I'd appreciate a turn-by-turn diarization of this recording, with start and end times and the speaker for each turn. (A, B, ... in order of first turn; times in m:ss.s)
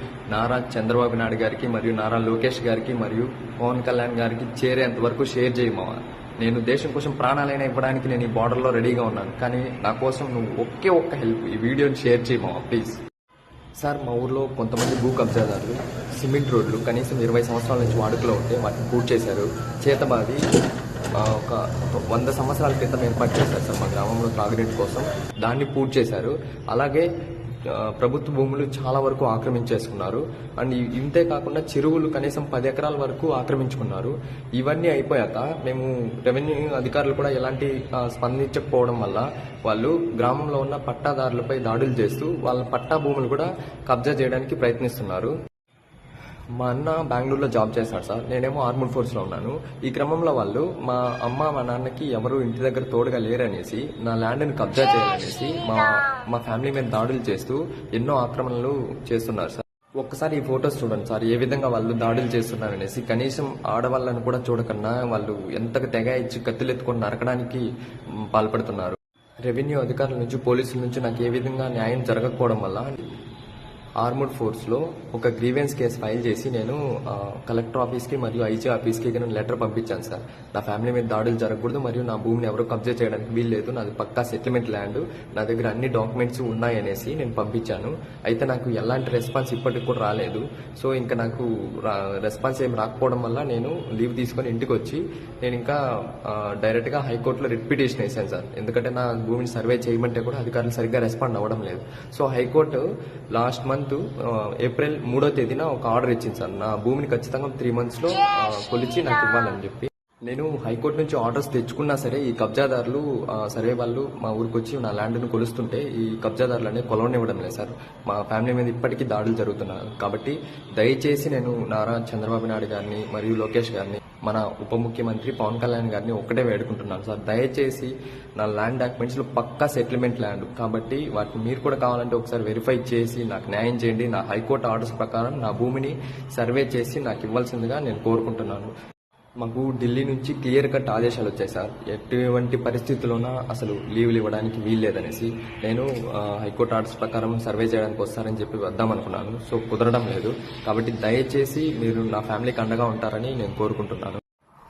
0:00.3-0:13.0 A
0:13.8-0:20.4 A
0:21.2-0:27.1 A
0:27.7-0:45.3 A
0:46.6-1:07.7 A
1:08.3-1:13.0 A
1:14.0-2:18.7 A
2:19.4-2:34.2 A